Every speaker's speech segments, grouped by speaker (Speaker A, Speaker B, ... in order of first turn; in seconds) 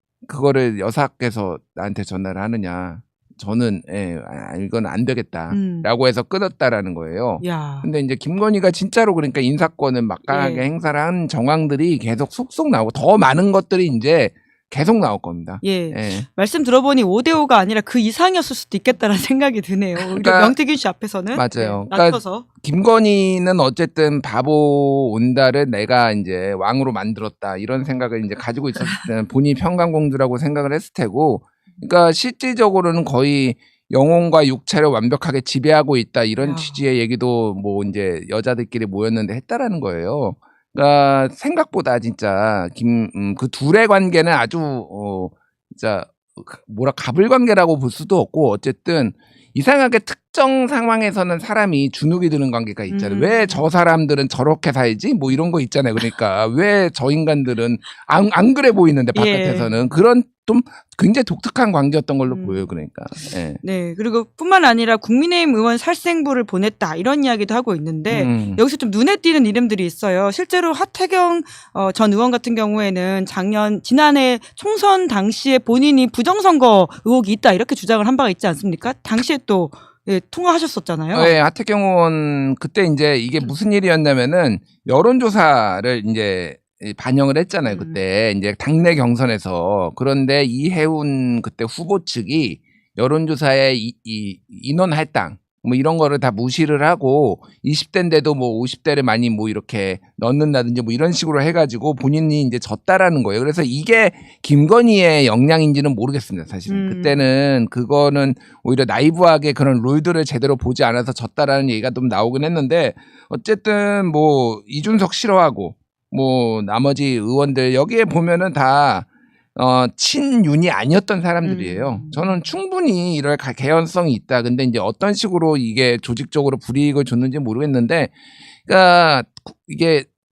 Speaker A: 0.2-16.3, 20.0-20.6, 21.3-63.6, 68.1-68.6, 81.1-128.1, 128.7-130.1
Speaker B: 5.5-5.9, 7.4-7.9, 10.3-10.7, 15.6-22.4, 36.4-36.8, 52.9-53.7, 59.1-59.7, 62.2-62.7, 63.6-81.4, 87.7-88.0, 106.7-107.2, 121.4-122.4